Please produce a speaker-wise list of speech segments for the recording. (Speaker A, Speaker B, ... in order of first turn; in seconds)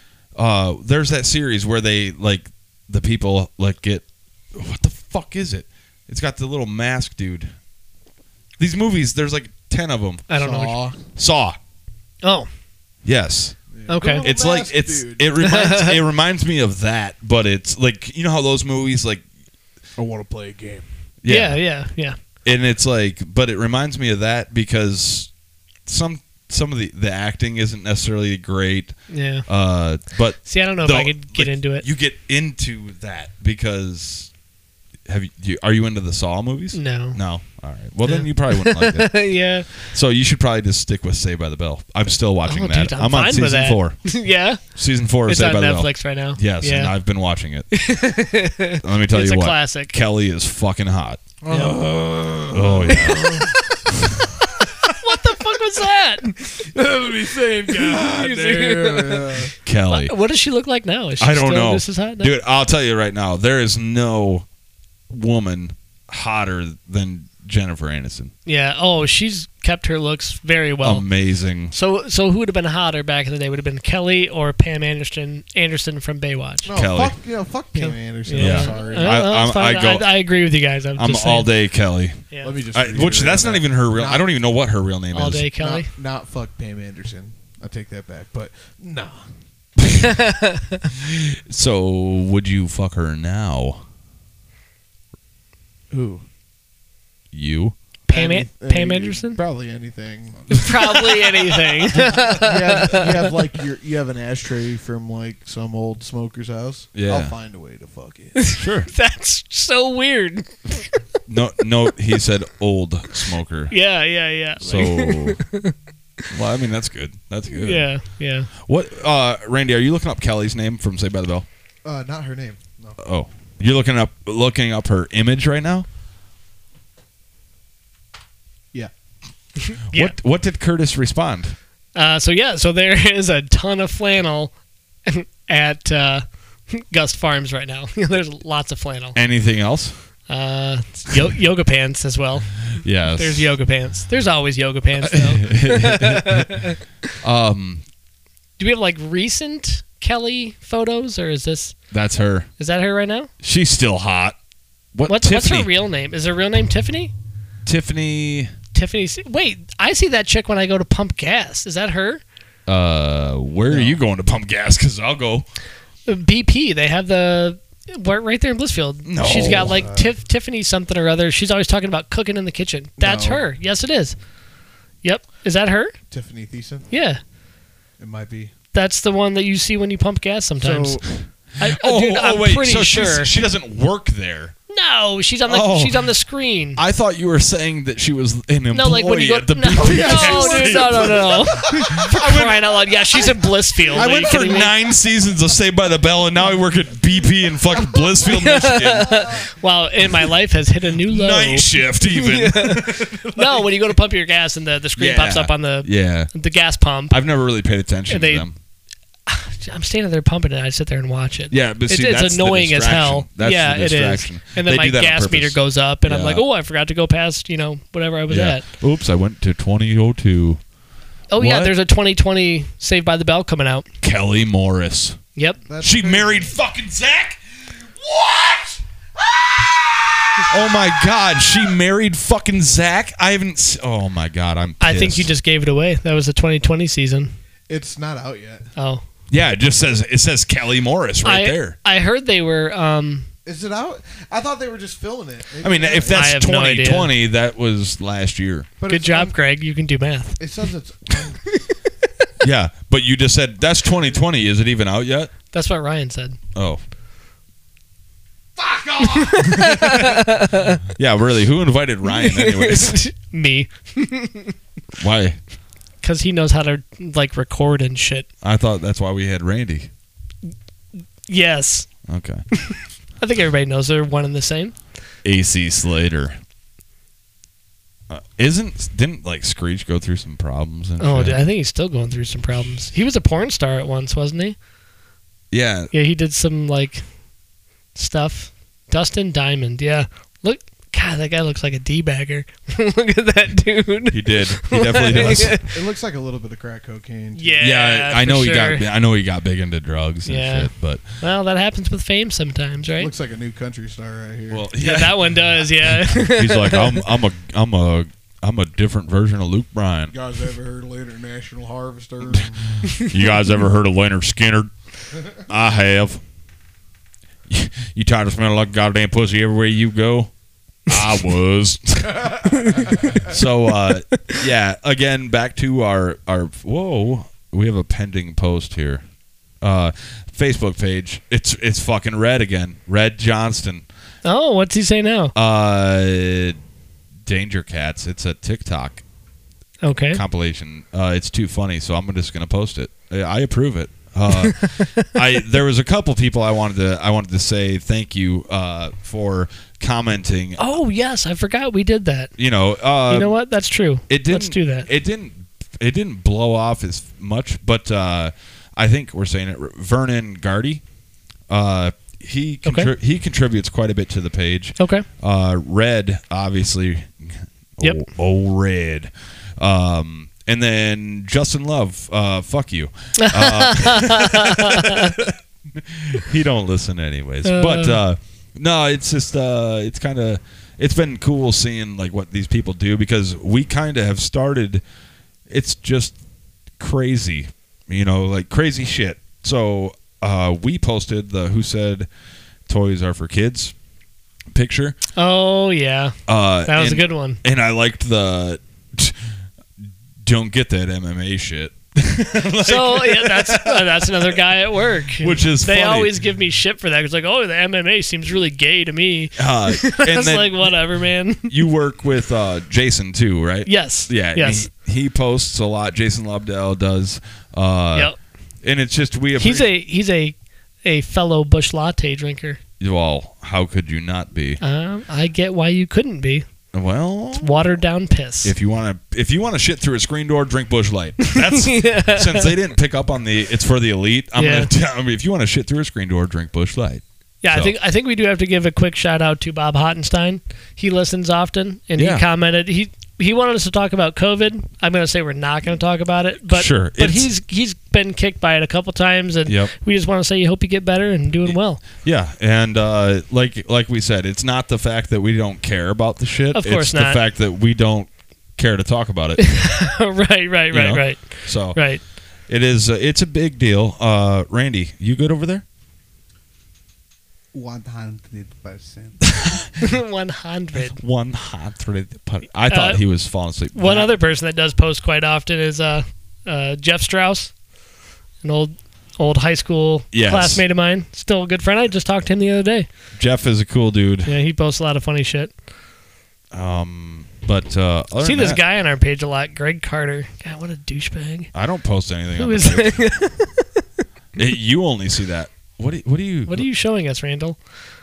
Speaker A: 0.3-7.5, 8.6-10.2, 11.1-11.6, 13.0-19.2, 21.2-21.6, 22.4-25.3, 25.9-34.3, 35.1-44.1, 44.7-47.8, 48.8-51.2, 52.5-53.5, 59.6-60.1, 61.2-64.5, 65.1-68.3, 70.8-71.7, 76.7-77.1, 78.3-80.1, 81.0-85.5, 90.9-93.8, 97.3-97.8, 106.9-107.3, 108.6-108.9, 111.3-113.7, 114.6-115.4, 116.3-117.9, 118.6-121.5, 123.0-125.8, 129.9-131.5, 139.1-139.9, 142.8-143.5, 145.0-146.6, 147.2-147.8, 151.9-152.5, 153.4-154.3, 154.9-155.7, 157.7-158.5, 162.7-165.4, 169.1-169.8, 181.6-184.5, 185.5-186.1, 186.8-192.6, 193.9-199.4, 201.1-203.3, 205.0-206.3, 207.1-208.5, 211.5-216.4, 218.3-220.6, 221.4-221.7, 224.0-225.2, 225.8-235.3, 239.3-241.8, 245.6-248.7, 252.4-255.3, 256.5-256.8, 259.9-260.2, 260.9-263.0, 265.0-265.4, 268.4-269.9, 272.1-272.5, 275.2-276.4, 278.1-281.4, 285.5-285.9, 294.1-295.6, 297.6-301.0, 304.5-310.1, 312.3-314.7, 315.3-316.2, 317.5-320.3, 320.9-329.0, 329.6-333.8, 335.3-336.6, 337.2-339.0, 340.1-350.6, 352.4-353.4, 354.1-360.8, 361.5-384.8, 385.5-386.1, 386.8-392.1, 392.7-393.7, 394.5-395.0, 396.3-399.2, 400.2-404.4, 405.2-406.1, 409.4-410.7, 411.4-418.1, 418.6-419.7, 422.8-424.6, 426.7-427.6, 428.4-437.7, 442.0-442.2, 446.5-447.3, 449.5-449.7, 451.4-459.6, 460.7-465.6, 469.2-469.7, 470.7-474.1, 480.1-480.6, 483.2-484.3, 486.5-488.6, 491.5-493.1, 494.4-496.6
Speaker B: 10.3-10.8, 12.2-12.5, 13.9-14.2, 15.4-16.0, 21.3-22.2, 29.1-29.4, 30.4-31.9, 36.7-37.2, 38.0-39.9, 42.5-44.6, 45.2-46.9, 47.7-49.9, 51.5-51.8, 52.9-53.5, 54.8-56.7, 57.8-62.3, 68.5-71.0, 71.7-76.7, 77.7-81.5, 82.3-82.5, 85.1-85.9, 90.0-90.8, 98.1-99.4, 100.5-103.1, 108.3-111.0, 113.7-115.7, 117.5-118.5, 129.6-130.1, 131.9-139.2, 140.3-146.8, 148.6-151.8, 152.6-153.3, 155.1-157.1, 158.7-162.2, 166.1-174.2, 175.0-175.9, 176.9-177.2, 178.7-181.0, 181.6-183.3, 184.7-186.8, 188.7-194.7, 198.2-207.2, 208.1-208.5, 209.3-218.6, 221.3-223.9, 234.8-237.3, 238.8-239.0, 241.2-243.3, 246.1-247.1, 248.9-250.4, 255.5-256.4, 259.1-260.8, 262.1-264.5, 266.0-268.3, 271.3-271.9, 272.6-274.7, 281.0-284.6, 285.9-287.0, 287.9-295.6, 297.4-298.8, 300.2-303.1, 304.8-306.9, 322.6-323.2, 334.2-335.3, 339.8-340.2, 344.5-345.1, 350.6-352.3, 353.1-354.9, 362.6-362.9, 364.8-365.0, 367.8-368.1, 373.2-375.2, 377.4-378.0, 395.1-396.1, 396.7-397.4, 402.6-411.5, 413.6-414.7, 419.4-422.6, 424.6-426.5, 427.3-428.5, 431.3-432.5, 434.4-434.7, 437.4-451.8, 456.5-457.2, 459.4-462.0, 469.8-471.0, 472.7-473.0, 473.7-477.5, 478.4-482.9, 484.3-485.5, 488.2-491.5, 492.4-493.8, 496.5-497.6
Speaker C: 10.3-11.0, 13.7-15.3, 20.0-20.9, 51.4-53.6, 56.6-59.5, 76.6-79.2, 82.4-84.3, 85.6-89.3, 95.9-96.2, 98.1-108.3, 121.8-123.0, 163.7-164.0, 169.3-170.1, 173.0-173.4, 176.1-176.9, 178.0-178.5, 180.6-181.1, 189.8-192.4, 193.2-194.3, 225.6-226.6, 237.7-238.7, 243.4-246.3, 248.8-249.3, 250.4-251.4, 258.6-259.6, 295.0-297.8, 303.0-304.6, 310.1-312.8, 467.5-469.1